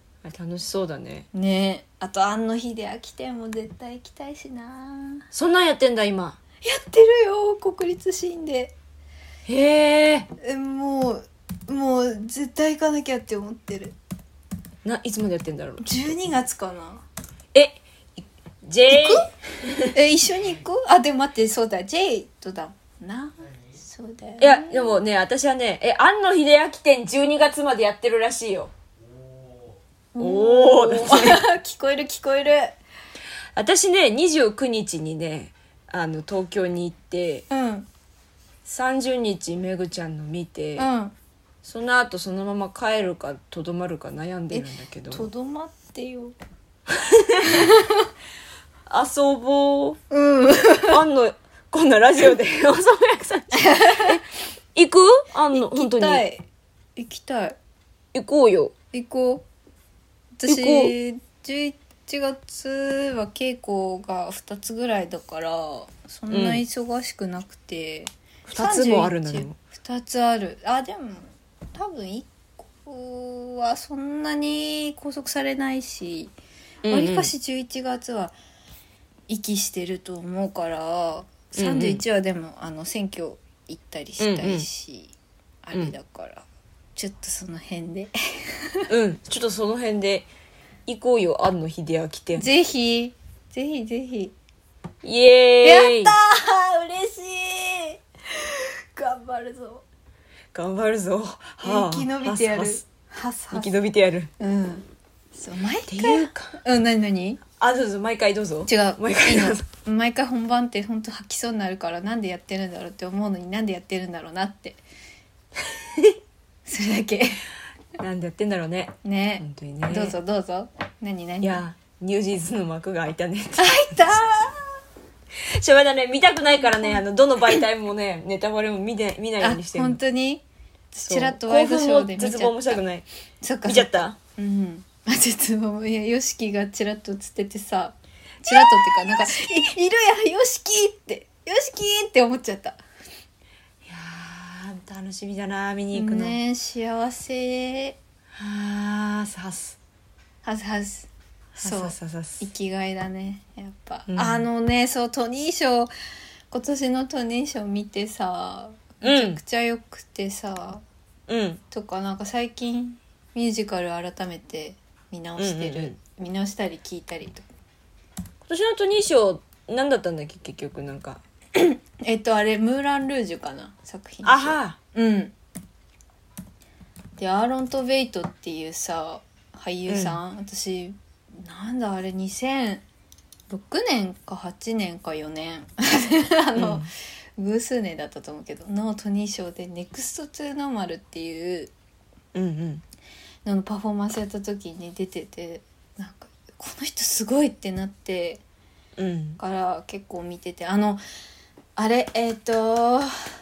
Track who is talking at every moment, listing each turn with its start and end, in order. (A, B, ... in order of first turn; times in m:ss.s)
0:00.2-0:01.3 A
0:01.3-0:05.3 B
0:05.3-0:06.4 A
0:06.6-0:08.8 B
0:09.5-0:10.3 A
0:10.4-0:14.0 B
0:14.8-0:15.9 A
0:15.8-0:17.0 B
0:17.5-0:19.9 A
0:18.9-0:19.3 B
0:19.9-0:25.0 B
0:24.4-0:28.7 A
0:30.1-0:32.8 B
0:30.2-0:31.4 A
0:33.6-0:37.5 A
0:37.5-0:37.9 B
0:38.6-0:40.9 A
0:40.8-0:41.1 B
0:41.6-0:45.3 A
0:44.5-0:46.4 B
0:46.9-0:47.7 A
0:47.4-0:48.1 B
0:48.9-0:50.0 A
0:50.1-0:51.0 B
0:50.9-0:56.2 A
0:53.6-0:54.2 B
0:55.5-0:56.4 B
0:57.0-0:57.6 B
0:58.1-0:58.8 A
0:58.9-0:59.5 B
1:00.4-1:16.3 B
1:00.5-1:00.9 A
1:06.3-1:06.6 A
1:08.4-1:09.6 A
1:16.8-1:17.3 A
1:16.9-1:18.4 B
1:19.3-1:26.4 B
1:21.5-1:22.0 A
1:24.2-1:24.6 A
1:27.0-1:28.9 B
1:28.9-1:30.3 A
1:30.9-1:32.4 A
1:32.4-1:34.3 B
1:35.0-1:36.1 A
1:35.6-1:39.8 B
1:40.5-1:42.8 A
1:41.6-1:43.8 B
1:43.5-1:44.3 A
1:44.4-1:47.4 B
1:45.9-1:46.6 A
1:47.5-1:49.6 A
1:48.7-1:54.8 B
1:55.7-1:56.2 A
1:56.6-1:57.4 B
1:58.0-2:00.2 A
1:59.0-2:01.6 B
2:01.4-2:04.1 A
2:03.6-2:04.7 B
2:05.4-2:10.0 A
2:09.4-2:12.8 B
2:11.1-2:13.0 A
2:13.4-2:22.8 B
2:13.6-2:14.2 A
2:18.4-2:19.7 A
2:23.8-2:26.4 A
2:25.9-2:28.0 B
2:28.3-2:29.8 A
2:30.4-2:35.9 B
2:31.6-2:32.4 A
2:34.1-2:34.4 A
2:36.5-2:40.8 B
2:39.0-2:39.4 A
2:41.3-2:41.6 A
2:41.7-2:47.4 B
2:45.4-2:46.0 A
2:48.4-2:51.2 A
2:51.6-2:55.3 B
2:54.2-2:54.8 A
2:57.2-3:02.8 B
2:59.9-3:00.2 A
3:03.5-3:11.7 B
3:06.6-3:06.9 A
3:12.3-3:12.8 A
3:13.4-3:18.4 B
3:19.0-3:19.4 A
3:19.4-3:21.0 B
3:21.8-3:23.1 B